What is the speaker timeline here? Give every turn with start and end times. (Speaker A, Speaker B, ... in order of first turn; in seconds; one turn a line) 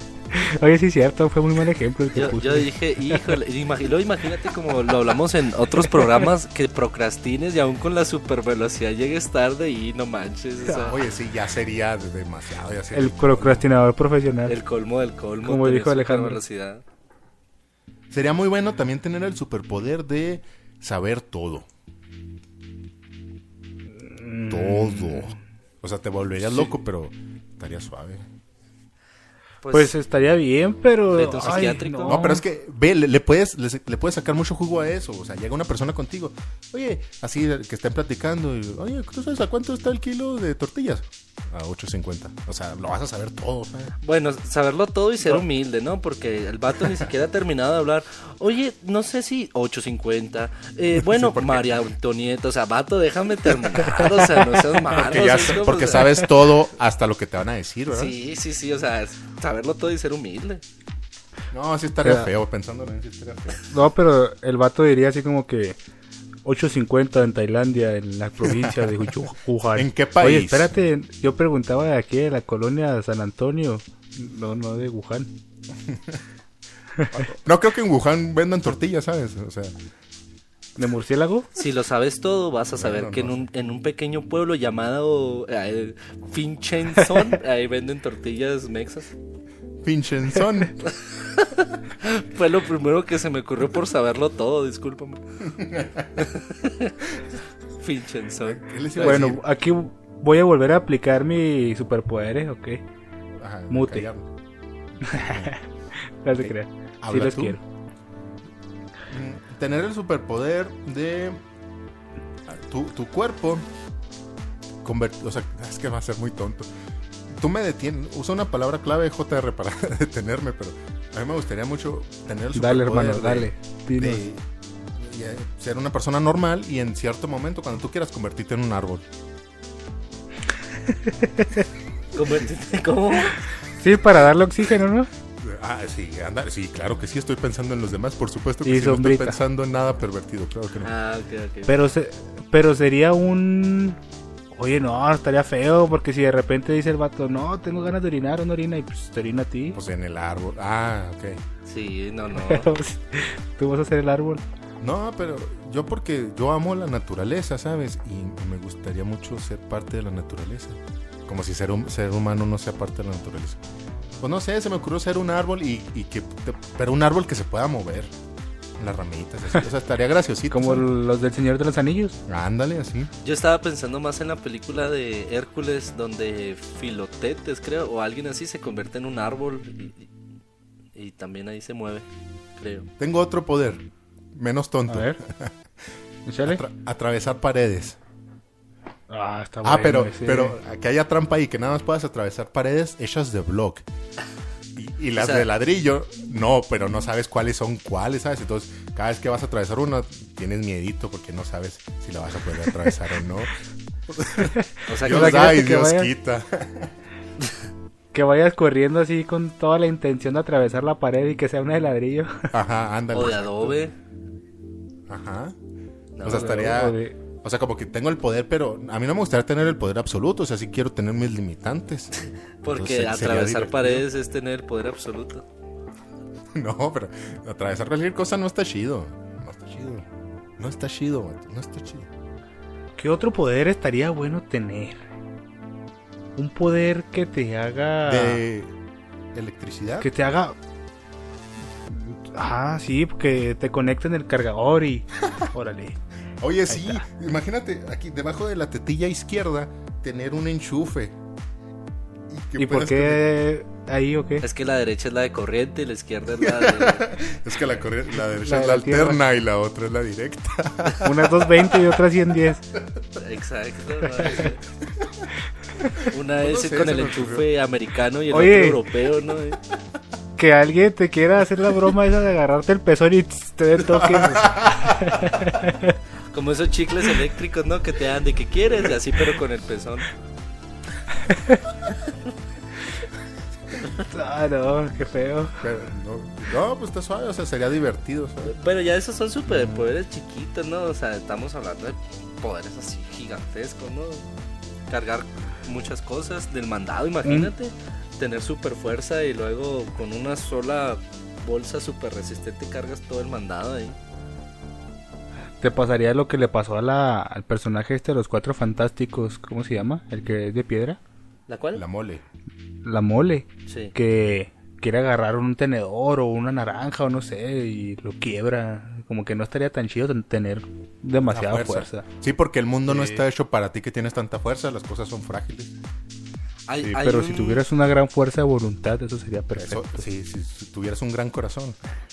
Speaker A: 0.3-3.2
Speaker B: 2.1-11.0
Speaker A: 5.8-6.1
Speaker A: 10.6-10.9
Speaker C: 10.9-13.7
Speaker A: 12.9-14.6
Speaker B: 14.5-16.8
Speaker A: 15.4-16.4
Speaker C: 18.1-21.7
Speaker A: 24.0-25.4
Speaker C: 24.5-28.2
Speaker A: 26.4-26.7
Speaker B: 29.6-29.9
Speaker A: 29.7-32.4
Speaker B: 31.1-32.4
Speaker C: 31.4-43.9
Speaker B: 44.0-56.2
Speaker C: 51.0-51.7
Speaker C: 54.9-58.1
Speaker B: 57.9-60.6
Speaker C: 61.5-63.7
Speaker A: 62.0-62.3
Speaker A: 63.6-65.8
Speaker A: 66.4-75.3
Speaker C: 68.5-68.9
Speaker C: 69.7-70.8
Speaker C: 77.1-79.7
Speaker A: 80.8-81.5
Speaker B: 81.5-89.1
Speaker C: 82.7-83.4
Speaker C: 89.8-90.8
Speaker B: 90.8-95.2
Speaker C: 95.5-96.1
Speaker B: 96.2-96.9
Speaker B: 97.8-99.3
Speaker C: 98.4-99.4
Speaker A: 99.0-102.8
Speaker C: 103.4-104.3
Speaker A: 103.7-104.1
Speaker A: 105.0-105.6
Speaker C: 105.1-105.5
Speaker A: 106.2-107.6
Speaker C: 106.4-107.6
Speaker C: 109.1-111.4
Speaker C: 112.5-113.6
Speaker C: 114.8-116.7
Speaker C: 117.4-124.4
Speaker A: 122.5-124.3
Speaker C: 125.0-129.0
Speaker A: 130.9-131.6
Speaker B: 132.1-133.4
Speaker A: 133.7-135.1
Speaker C: 135.4-140.9
Speaker A: 138.6-139.4
Speaker B: 140.8-141.7
Speaker A: 141.7-144.0
Speaker A: 144.5-149.8
Speaker C: 149.7-151.4
Speaker B: 151.7-152.7
Speaker A: 152.3-154.4
Speaker C: 154.8-163.6
Speaker C: 164.2-168.1
Speaker C: 168.8-170.9
Speaker A: 170.5-172.2
Speaker C: 172.3-173.1
Speaker B: 173.2-180.1
Speaker B: 180.9-182.0
Speaker B: 182.6-182.9
Speaker C: 183.0-183.8
Speaker C: 184.3-185.5
Speaker A: 184.9-185.2
Speaker A: 186.2-186.6
Speaker C: 186.4-188.0
Speaker A: 189.1-190.6
Speaker C: 189.6-193.8
Speaker C: 194.7-203.5
Speaker B: 195.2-195.5
Speaker C: 204.1-206.9
Speaker B: 204.9-205.5
Speaker A: 205.0-206.1
Speaker A: 208.1-212.5
Speaker C: 212.5-213.8
Speaker B: 213.1-213.9
Speaker C: 215.1-215.5
Speaker B: 216.2-216.7
Speaker C: 216.2-222.1
Speaker A: 216.2-217.2
Speaker B: 222.6-225.4
Speaker C: 222.7-224.1
Speaker C: 226.6-230.1
Speaker C: 230.6-232.1
Speaker A: 233.0-235.0
Speaker A: 236.3-238.4
Speaker C: 238.1-238.7
Speaker C: 239.3-240.1
Speaker A: 240.0-240.6
Speaker A: 241.9-246.0
Speaker C: 246.4-251.1
Speaker A: 246.7-247.0
Speaker C: 252.3-253.3
Speaker A: 252.6-254.4
Speaker B: 254.4-257.2
Speaker C: 256.4-261.8
Speaker A: 258.3-259.2
Speaker A: 261.0-262.6
Speaker B: 263.2-264.6
Speaker B: 266.1-269.6
Speaker C: 266.4-267.4
Speaker A: 268.3-268.8
Speaker A: 270.4-275.9
Speaker C: 273.9-275.1
Speaker B: 276.3-280.1
Speaker A: 281.3-281.6
Speaker A: 283.9-285.6
Speaker C: 285.6-288.5
Speaker B: 288.4-294.2
Speaker B: 294.9-304.0
Speaker A: 297.2-297.5
Speaker A: 305.6-311.0
Speaker B: 311.5-311.8
Speaker C: 311.7-312.2
Speaker A: 312.8-322.1
Speaker B: 313.7-313.9
Speaker C: 321.3-325.7
Speaker A: 322.9-323.2
Speaker B: 326.7-327.6
Speaker A: 326.9-330.1
Speaker C: 329.6-331.8